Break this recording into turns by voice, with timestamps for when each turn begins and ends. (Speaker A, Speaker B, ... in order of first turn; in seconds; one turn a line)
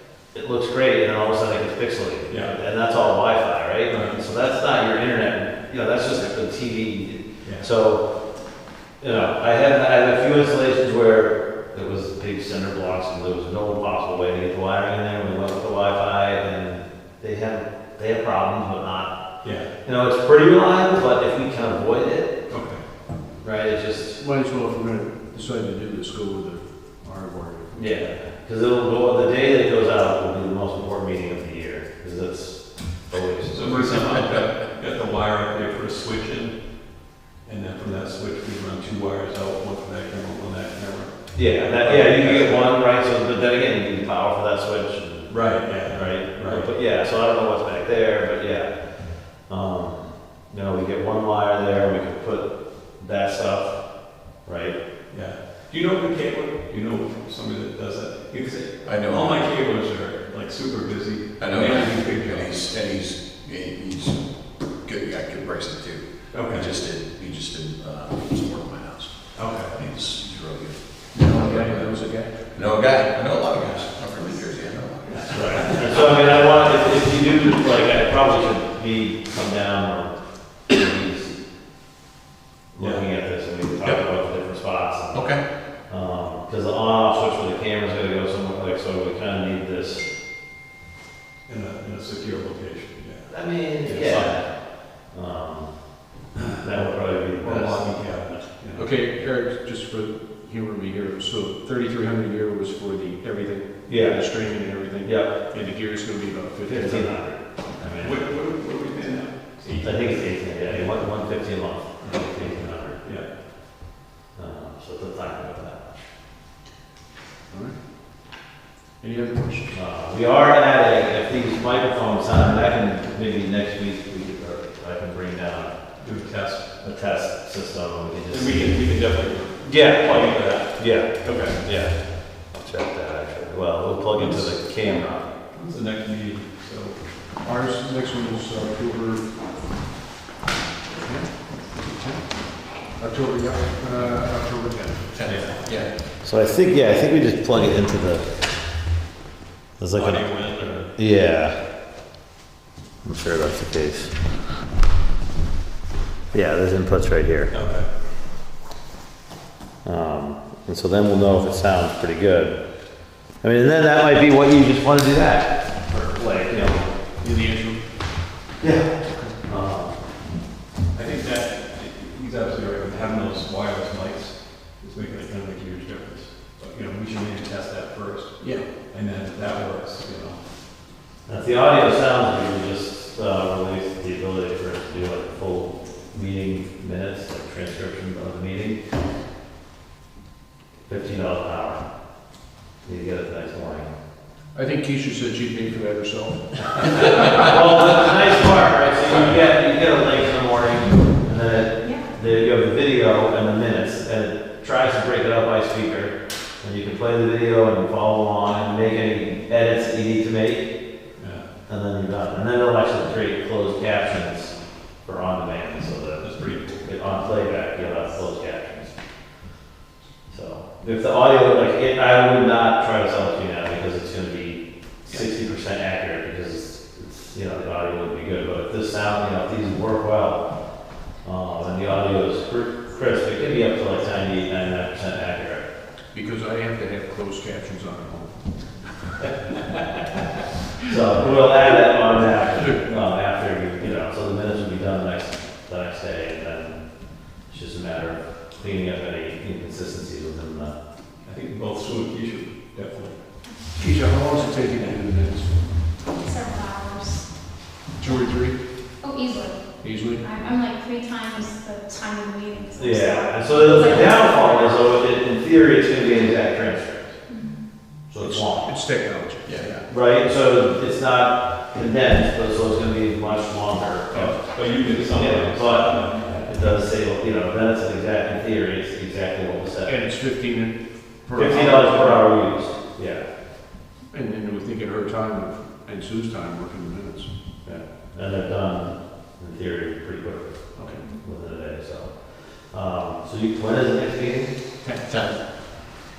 Speaker A: 0.3-8.3
Speaker B: 2.3-2.5
Speaker B: 3.9-4.2
Speaker B: 7.4-7.7
Speaker A: 9.0-19.2
Speaker B: 19.4-19.7
Speaker A: 19.8-22.4
Speaker B: 22.5-22.8
Speaker A: 23.4-24.2
Speaker C: 24.2-27.9
Speaker A: 27.7-34.1
Speaker B: 33.5-36.7
Speaker B: 37.4-42.7
Speaker A: 41.3-54.8
Speaker B: 45.3-46.7
Speaker B: 55.1-62.6
Speaker D: 58.8-59.5
Speaker D: 61.4-76.4
Speaker B: 66.3-66.8
Speaker B: 69.3-69.8
Speaker C: 71.1-72.3
Speaker B: 73.5-74.3
Speaker A: 75.1-81.4
Speaker B: 75.3-75.8
Speaker A: 82.7-90.1
Speaker B: 82.8-83.0
Speaker D: 85.1-85.4
Speaker B: 91.5-94.4
Speaker A: 93.3-97.8
Speaker D: 94.1-94.3
Speaker B: 96.4-96.6
Speaker B: 97.4-98.9
Speaker C: 98.8-107.4
Speaker A: 103.9-105.3
Speaker A: 106.7-108.2
Speaker B: 108.0-111.2
Speaker A: 109.8-113.0
Speaker B: 112.0-113.3
Speaker A: 114.3-116.0
Speaker C: 117.5-117.8
Speaker C: 119.0-119.7
Speaker A: 119.7-125.8
Speaker B: 126.0-126.7
Speaker A: 126.8-128.8
Speaker B: 128.3-131.6
Speaker A: 129.6-135.3
Speaker B: 134.1-137.0
Speaker C: 137.4-139.3
Speaker C: 141.0-142.2
Speaker C: 142.8-145.2
Speaker D: 145.1-145.9
Speaker B: 145.2-145.9
Speaker A: 146.2-148.5
Speaker A: 149.8-151.6
Speaker B: 149.9-150.9
Speaker A: 153.0-154.1
Speaker A: 156.3-157.5
Speaker B: 157.5-157.9
Speaker A: 159.8-162.6
Speaker A: 163.4-166.9
Speaker B: 165.9-166.2
Speaker C: 167.2-167.8
Speaker A: 168.6-170.0
Speaker B: 170.9-180.4
Speaker C: 178.4-178.7
Speaker A: 181.3-188.8
Speaker A: 190.9-192.0
Speaker A: 192.8-193.9
Speaker C: 194.5-197.4
Speaker A: 197.3-210.8
Speaker B: 199.1-199.3
Speaker E: 201.8-202.1
Speaker B: 211.2-211.5
Speaker A: 211.7-219.0
Speaker B: 216.2-217.0
Speaker A: 220.3-235.7
Speaker C: 236.1-239.4
Speaker A: 240.9-250.8
Speaker C: 241.2-241.5
Speaker C: 242.6-242.8
Speaker B: 251.2-253.2
Speaker E: 253.4-253.9
Speaker C: 253.8-255.9
Speaker E: 256.1-258.2
Speaker C: 258.0-258.6
Speaker E: 259.0-265.0
Speaker C: 259.8-260.2
Speaker A: 262.8-267.2
Speaker E: 266.0-266.3
Speaker E: 267.3-267.7
Speaker A: 268.1-268.7
Speaker C: 268.2-269.9
Speaker D: 269.4-269.8
Speaker A: 269.9-279.9
Speaker B: 274.1-276.4
Speaker C: 279.9-282.4
Speaker A: 281.4-283.3
Speaker C: 284.1-287.3
Speaker A: 287.6-294.5
Speaker C: 290.8-291.1
Speaker C: 294.8-295.1
Speaker D: 295.0-295.4